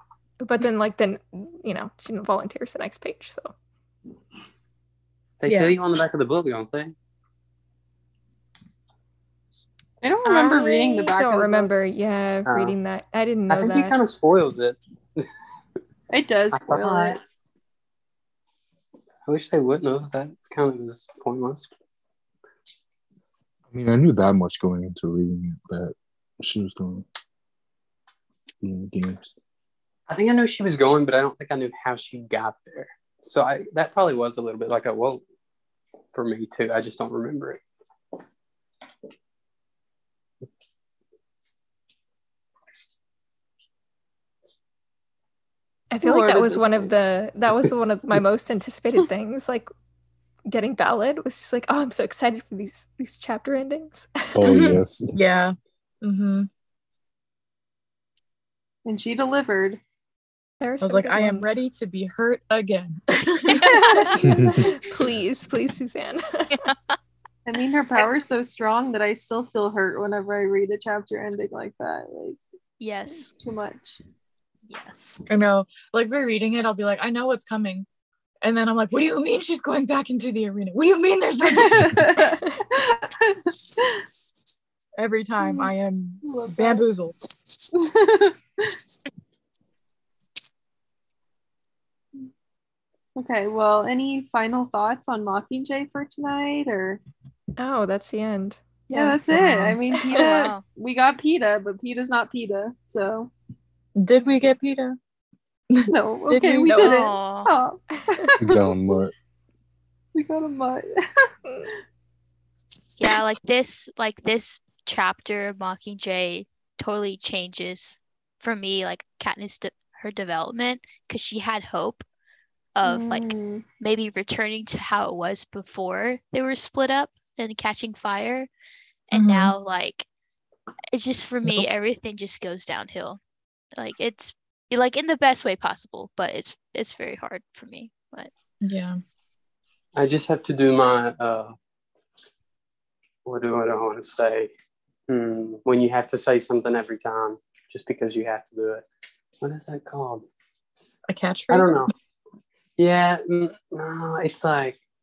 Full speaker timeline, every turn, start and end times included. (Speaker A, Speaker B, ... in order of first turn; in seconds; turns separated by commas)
Speaker A: 0.4-3.5, Speaker B: 5.4-6.9, Speaker C: 5.5-5.8, Speaker D: 10.0-11.7, Speaker A: 10.3-14.0, Speaker B: 12.5-12.8, Speaker B: 13.5-15.3, Speaker D: 16.1-17.2, Speaker B: 16.5-17.2, Speaker B: 19.3-21.7, Speaker E: 23.7-27.1, Speaker E: 28.6-29.3, Speaker B: 30.1-35.2, Speaker B: 36.1-37.6, Speaker A: 45.9-49.7, Speaker D: 46.0-46.6, Speaker A: 50.5-54.8, Speaker E: 54.3-55.2, Speaker C: 54.6-56.5, Speaker D: 58.9-59.8, Speaker A: 60.6-61.6, Speaker C: 60.8-63.8, Speaker D: 63.6-64.8, Speaker F: 63.7-64.2, Speaker A: 64.2-66.6, Speaker E: 64.2-64.6, Speaker D: 67.5-72.4, Speaker F: 72.8-73.4, Speaker D: 73.1-74.0, Speaker F: 74.7-75.2, Speaker C: 75.3-77.9, Speaker C: 78.4-82.2, Speaker D: 81.5-84.0, Speaker C: 85.0-87.2, Speaker D: 85.4-85.7, Speaker D: 86.2-86.9, Speaker D: 87.7-88.8, Speaker D: 93.2-97.0, Speaker A: 97.6-100.5, Speaker D: 98.9-103.3, Speaker C: 99.3-99.8, Speaker F: 100.1-100.6, Speaker C: 104.0-105.0, Speaker C: 105.7-106.9, Speaker D: 105.9-108.7, Speaker F: 106.7-107.5, Speaker E: 108.4-109.1, Speaker D: 110.2-111.3, Speaker A: 111.5-111.7, Speaker F: 113.0-122.0, Speaker F: 122.8-128.5, Speaker D: 122.8-123.7, Speaker F: 129.1-130.1, Speaker C: 129.1-129.5, Speaker F: 130.9-133.2, Speaker F: 133.7-138.3, Speaker C: 138.6-139.0, Speaker B: 139.9-141.6, Speaker B: 143.2-144.5, Speaker B: 145.1-148.9, Speaker B: 149.4-150.2, Speaker C: 151.1-151.9, Speaker B: 151.5-151.9, Speaker B: 152.8-154.8